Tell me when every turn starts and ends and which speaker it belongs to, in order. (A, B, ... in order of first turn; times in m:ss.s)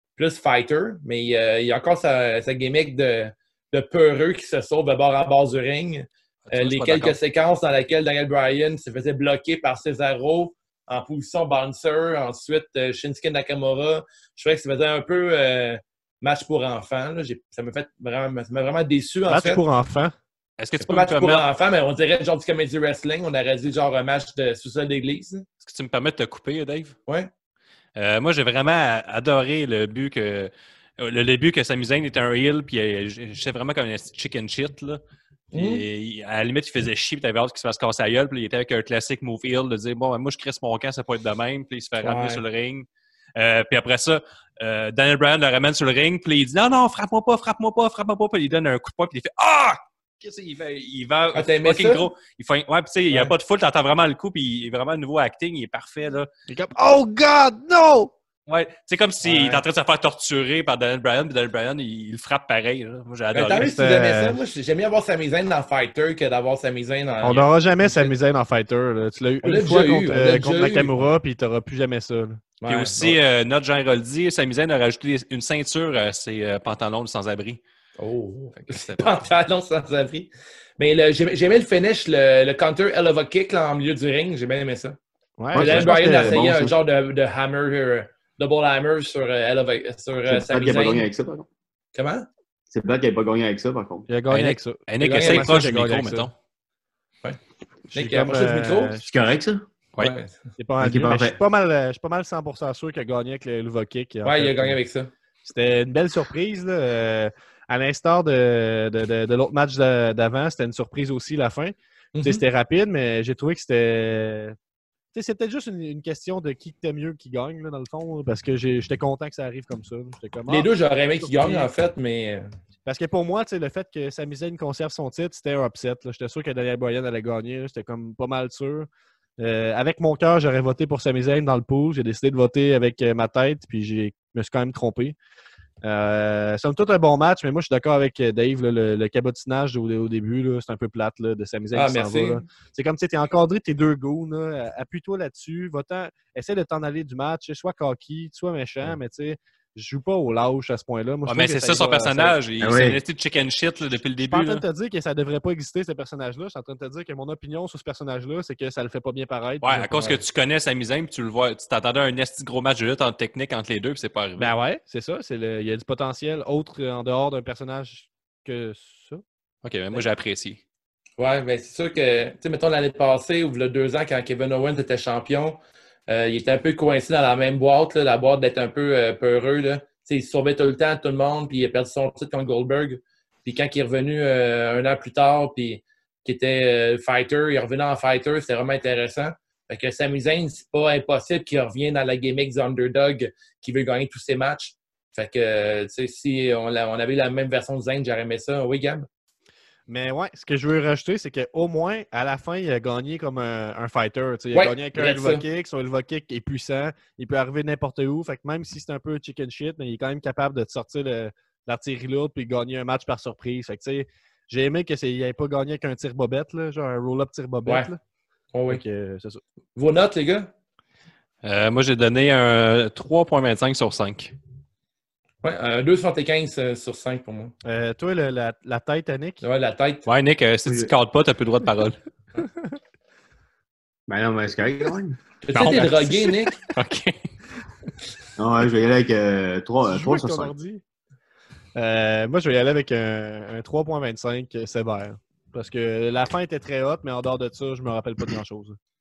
0:00.2-0:19.6 A
0:06.5-0:07.2 B
0:19.3-0:20.1 C
0:20.6-0:21.4 B
0:20.8-0:25.5 A
0:25.6-0:27.0 B
0:28.0-0:35.0 B
0:35.5-0:35.8 A
0:35.5-0:56.3 B
0:42.0-0:42.4 A
0:51.3-0:52.1 A
0:56.5-0:58.1 C
0:58.5-1:03.7 B
0:59.2-0:59.6 A
1:03.3-1:08.1 A
1:03.5-1:04.4 C
1:07.2-1:12.4 C
1:09.4-1:11.0 A
1:12.6-1:13.2 A
1:12.7-1:17.6 B
1:18.0-1:25.0 A
1:18.7-1:19.1 B
1:25.4-1:26.5 C
1:25.5-1:26.7 D
1:25.6-1:31.1 A
1:30.3-1:31.5 D
1:32.0-1:32.3 A
1:32.7-1:34.1 D
1:34.1-1:36.3 C
1:34.3-1:36.3 B
1:35.0-1:35.5 A
1:37.9-1:39.1 C
1:37.9-1:39.0 A
1:39.0-1:39.6 D
1:40.0-1:40.4 A
1:40.6-1:44.8 C
1:40.8-1:41.4 D
1:44.2-1:45.1 A
1:45.4-1:54.6 C
1:52.2-1:52.4 A
1:55.1-2:00.7 C
2:00.5-2:02.5 A
2:01.2-2:01.7 C
2:02.8-2:15.2 C
2:15.8-2:32.4 C
2:21.7-2:22.4 A
2:31.3-2:34.6 B
2:32.6-2:33.0 D
2:34.2-2:40.2 C
2:39.6-2:44.5 B
2:44.4-2:49.2 C
2:49.6-2:50.6 B
2:51.2-3:19.1 A
3:19.9-3:38.0 C
3:24.5-3:25.4 A
3:38.5-3:38.8 A
3:38.7-3:39.4 C
3:39.8-3:40.5 A
3:41.4-3:44.3 B
3:45.4-3:47.5 A
3:47.6-3:49.4 C
3:49.4-3:50.1 A
3:50.1-3:52.0 B
3:50.7-3:50.9 D
3:54.1-3:55.2 D
3:55.4-3:56.6 A
3:55.5-3:57.3 B
3:58.4-4:00.5 D
3:59.8-4:00.8 C
4:01.8-4:08.8 C